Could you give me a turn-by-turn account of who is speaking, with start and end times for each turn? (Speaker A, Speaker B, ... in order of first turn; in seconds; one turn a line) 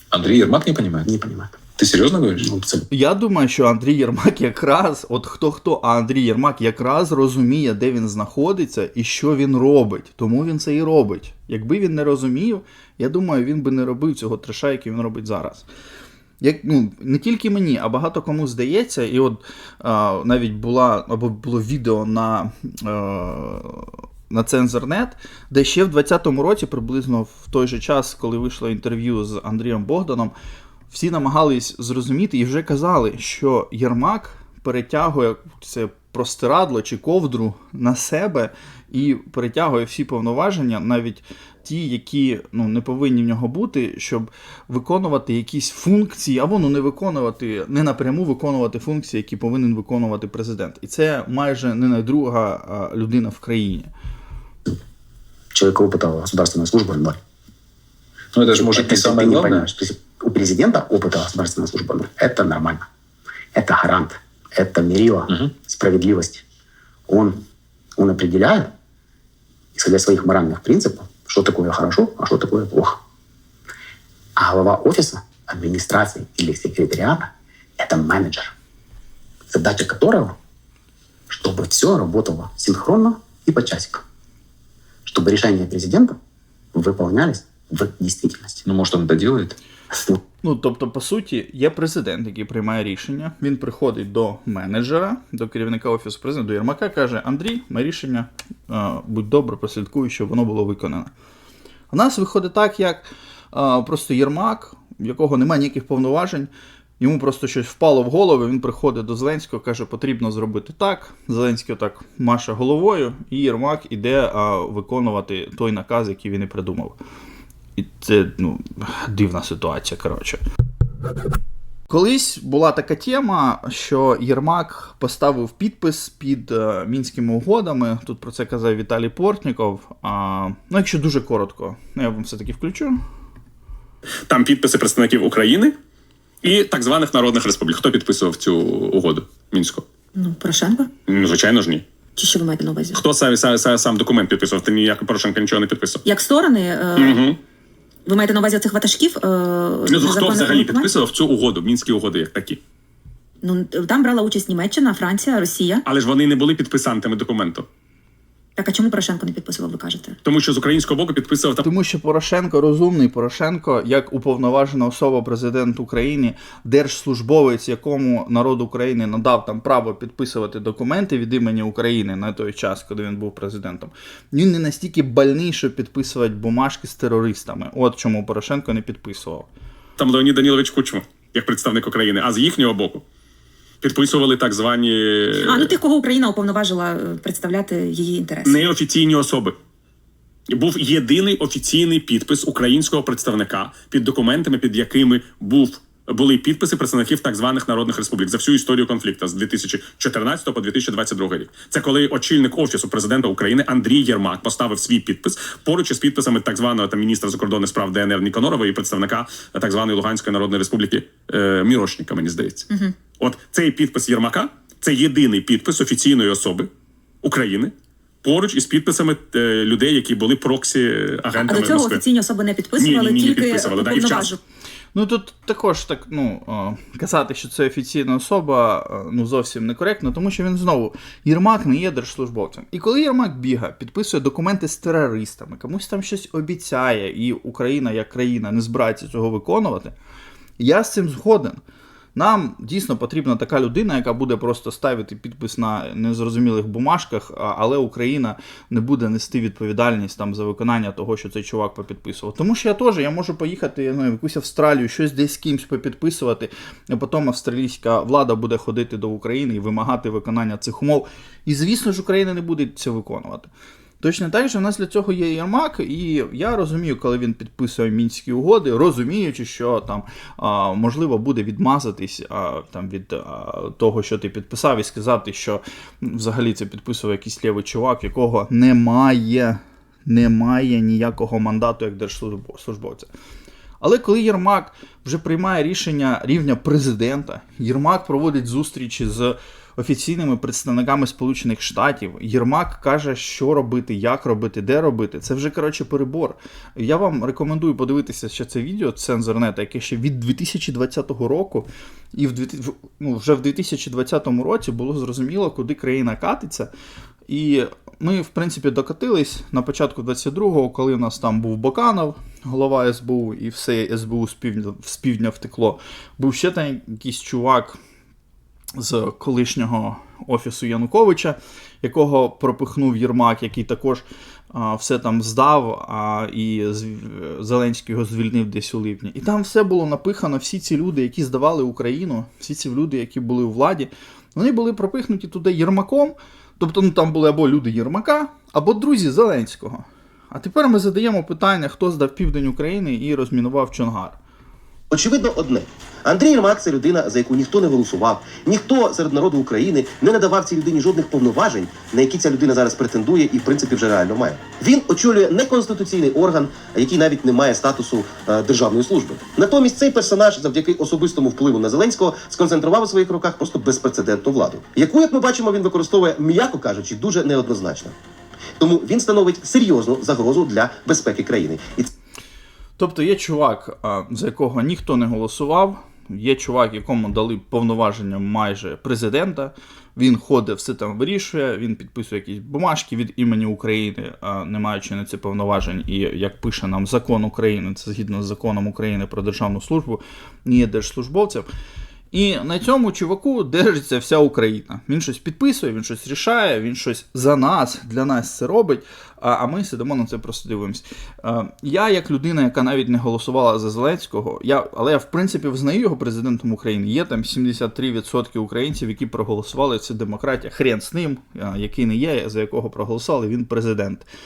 Speaker A: 0.1-1.1
Speaker B: 1.0-1.6
Speaker A: 1.8-2.5
Speaker B: 2.4-2.9
Speaker C: 2.9-15.7
Speaker C: 16.4-30.3
Speaker C: 30.9-53.9
Speaker B: 55.5-57.2
Speaker A: 58.3-59.7
Speaker B: 58.5-62.9
Speaker B: 63.5-66.4
Speaker B: 67.1-67.4
Speaker B: 68.0-68.7
Speaker B: 69.8-73.0
Speaker B: 74.4-78.5
Speaker B: 79.5-80.3
Speaker B: 81.3-84.0
Speaker B: 85.0-86.2
Speaker B: 86.7-88.6
Speaker A: 88.7-89.5
Speaker B: 89.9-90.2
Speaker C: 90.4-101.1
Speaker C: 101.9-117.0
Speaker C: 117.8-120.4
Speaker C: 121.9-133.0
Speaker D: 134.3-135.7
Speaker D: 136.4-139.8
Speaker E: 140.1-140.9
Speaker D: 141.1-141.8
Speaker E: 142.2-143.0
Speaker D: 142.9-146.0
Speaker E: 146.0-147.2
Speaker D: 146.9-147.4
Speaker E: 148.1-150.9
Speaker D: 149.8-152.6
Speaker E: 153.4-155.8
Speaker D: 155.8-157.7
Speaker E: 158.6-160.2
Speaker D: 160.2-161.6
Speaker C: 161.6-179.5
Speaker D: 180.0-183.0
Speaker D: 183.8-185.8
Speaker E: 185.4-188.7
Speaker D: 188.4-189.6
Speaker D: 190.5-216.7
Speaker D: 217.2-217.7
Speaker D: 218.2-222.0
Speaker E: 221.4-224.4
Speaker D: 222.8-224.3
Speaker C: 224.9-239.9
Speaker C: 240.6-241.6
Speaker C: 242.1-263.5
Speaker C: 264.0-283.1
Speaker C: 283.8-306.7
Speaker C: 307.3-317.8
Speaker C: 318.8-344.2
Speaker F: 344.9-367.9
Speaker F: 368.6-371.9
Speaker C: 372.8-391.5
Speaker C: 392.1-414.1